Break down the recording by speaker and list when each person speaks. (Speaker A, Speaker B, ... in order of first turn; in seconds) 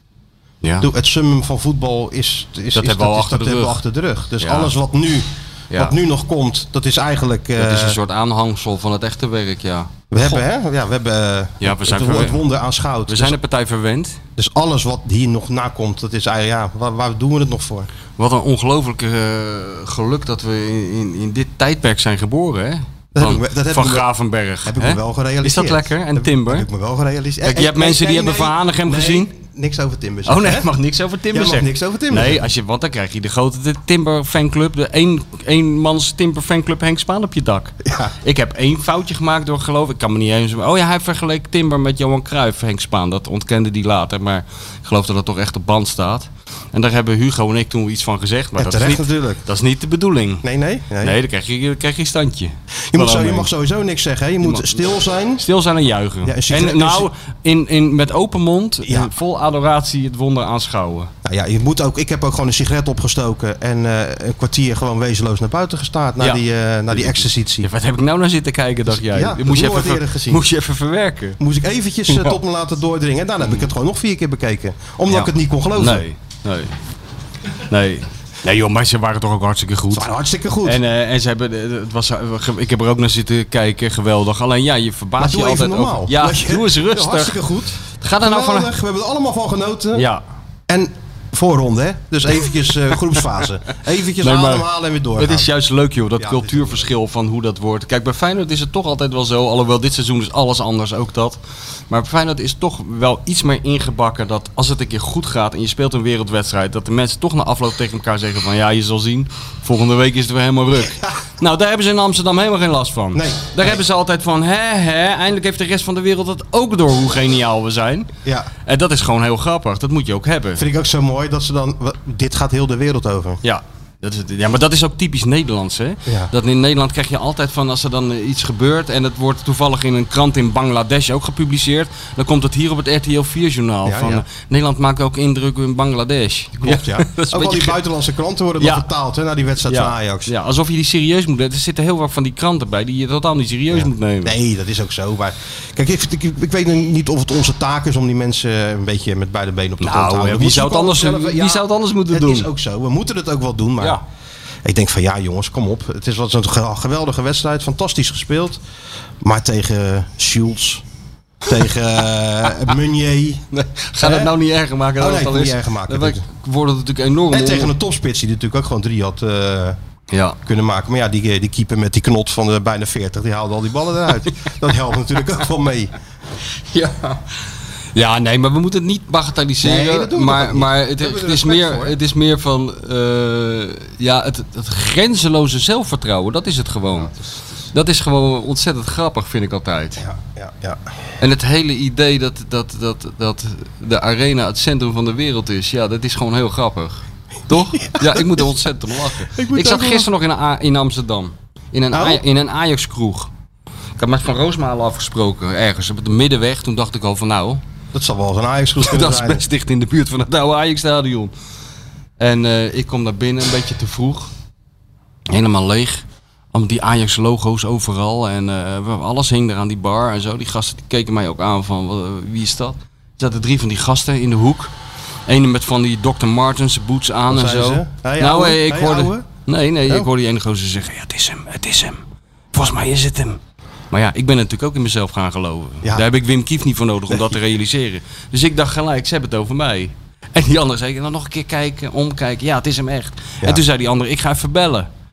Speaker A: 0.6-0.9, 2.8-3.8, 4.4-4.7, 7.6-10.4, 11.6-12.4, 13.1-14.2, 18.2-26.7, 27.4-29.3, 30.3-50.5, 51.0-53.5, 54.4-54.8, 55.4-61.1, 66.2-71.4, 72.1-72.4, 75.1-76.7, 77.7-80.1, 80.6-87.4, 88.0-88.7, 89.9-90.2, 94.2-101.4, 101.9-118.1, 118.7-120.6, 123.4-137.8, 138.6-138.9, 139.7-144.4, 149.8-152.5, 163.5-167.7, 170.1-170.4, 176.7-177.3, 177.9-187.1, 187.7-190.0, 191.2-203.3, 204.0-207.6, 208.8-211.3, 212.2-214.3, 215.3-224.7, 225.3-232.0, 232.5-233.4, 233.9-244.9
Speaker B: 0.8-8.0, 10.1-13.4, 14.4-17.9, 23.1-24.1, 24.6-30.7, 31.3-32.4, 37.8-38.1, 48.6-49.4, 50.4-51.2, 52.9-55.4, 56.2-57.1, 58.8-59.1, 61.2-67.7, 68.9-70.5, 71.4-76.1, 79.9-80.8, 85.2-90.1, 90.7-95.5, 96.2-96.9, 110.9-111.1, 113.1-113.8, 118.2-118.5, 120.6-123.4, 126.1-126.3, 133.8-134.2, 136.6-140.3, 143.7-154.0, 154.6-158.6, 159.2-160.8, 161.4-163.5, 164.0-164.3, 165.0-166.2, 167.3-169.8, 170.4-175.9, 179.6-182.0, 187.0-187.4, 190.0-190.8, 197.8-198.6, 199.3-200.1, 201.9-202.2, 207.9-209.5, 227.3-229.3, 237.1-237.3